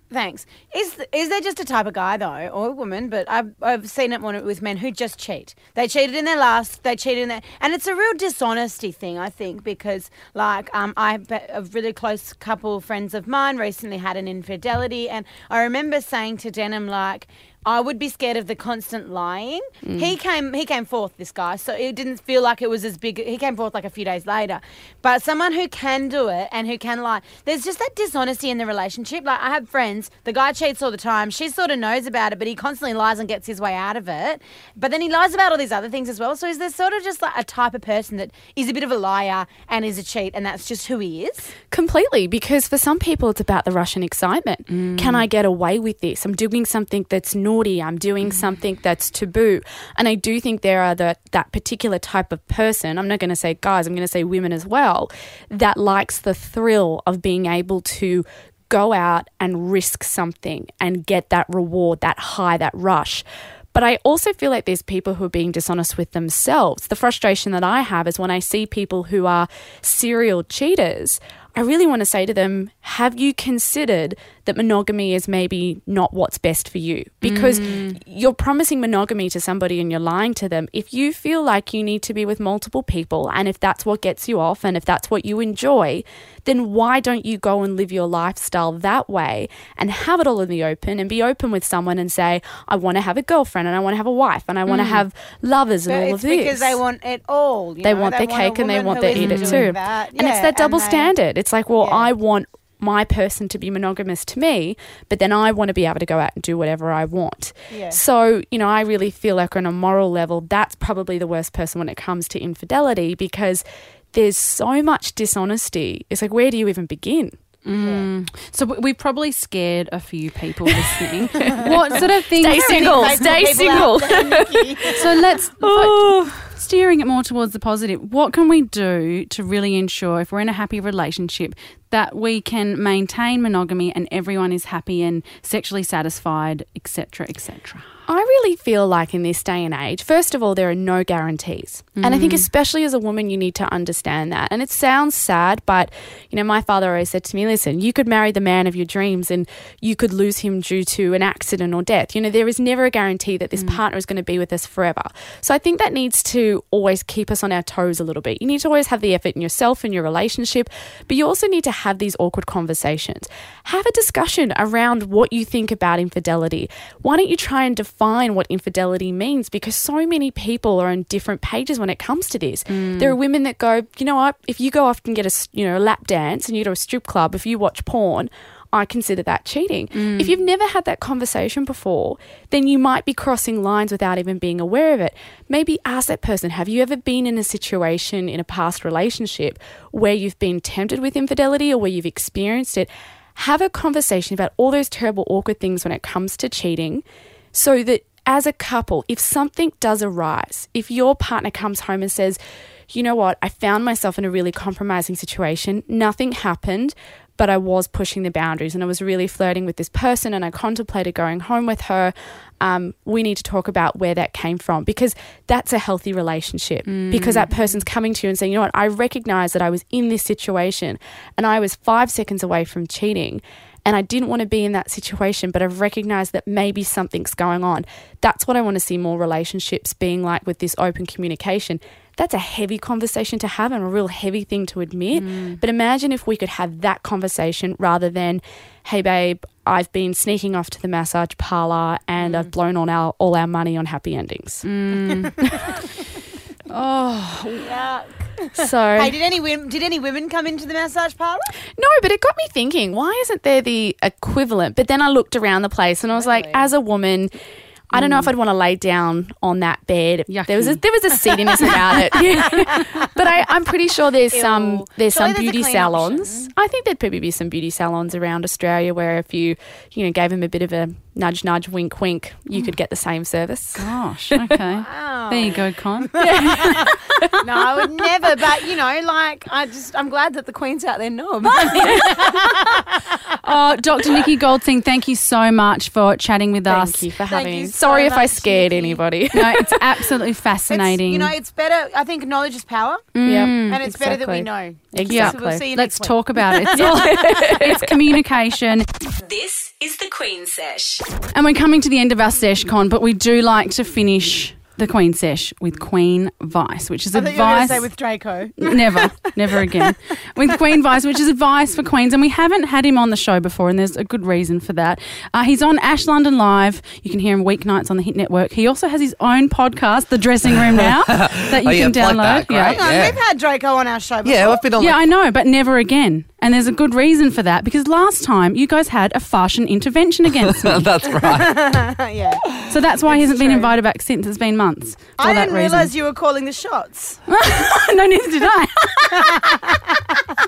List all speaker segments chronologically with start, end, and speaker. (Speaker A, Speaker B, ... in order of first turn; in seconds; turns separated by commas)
Speaker A: 0.1-41.5, Speaker B: 19.9-20.1, Speaker B: 41.7-96.8, Speaker C: 44.7-45.2, Speaker C: 77.2-78.0, Speaker C: 94.7-95.0, Speaker A: 95.9-101.1, Speaker B: 97.8-117.4, Speaker C: 99.1-99.7, Speaker A: 101.8-102.1, Speaker A: 107.7-108.0, Speaker C: 117.6-123.0, Speaker A: 117.7-118.0, Speaker B: 121.5-125.1, Speaker A: 122.5-125.0, Speaker C: 124.9-137.9, Speaker B: 125.6-126.5, Speaker B: 138.1-244.7, Speaker C: 142.0-142.5, Speaker C: 172.7-173.2, Speaker C: 179.9-180.3, Speaker C: 216.8-217.8, Speaker C: 235.1-235.6, Speaker A: 242.2-242.5, Speaker C: 244.6-245.7, Speaker A: 245.1-245.4, Speaker C: 246.7-247.7, Speaker A: 247.6-251.5, Speaker B: 248.6-249.1, Speaker B: 251.8-257.3, Speaker A: 256.1-256.6, Speaker B: 257.9-273.9, Speaker C: 257.9-258.3, Speaker C: 260.3-260.8, Speaker C: 262.4-262.6, Speaker A: 264.3-266.5, Speaker C: 273.8-277.9, Speaker A: 274.8-283.1, Speaker C: 281.6-282.5, Speaker C: 283.4-287.1, Speaker B: 286.7-289.8, Speaker A: 287.3-289.0, Speaker C: 289.3-291.3, Speaker A: 290.7-293.1, Speaker C: 293.1-293.8, Speaker B: 293.2-295.7, Speaker A: 293.7-297.6, Speaker C: 295.1-298.9, Speaker B: 296.7-297.9, Speaker D: 299.1-301.2, Speaker C: 301.3-307.9, Speaker A: 307.1-309.9, Speaker C: 308.6-322.8, Speaker E: 321.1-323.2, Speaker A: 322.7-324.6, Speaker E: 324.2-325.0, Speaker C: 324.8-330.8, Speaker E: 330.6-331.7, Speaker A: 331.2-333.7, Speaker C: 332.7-335.9, Speaker A: 335.2-337.2, Speaker C: 337.3-339.3, Speaker A: 339.1-339.8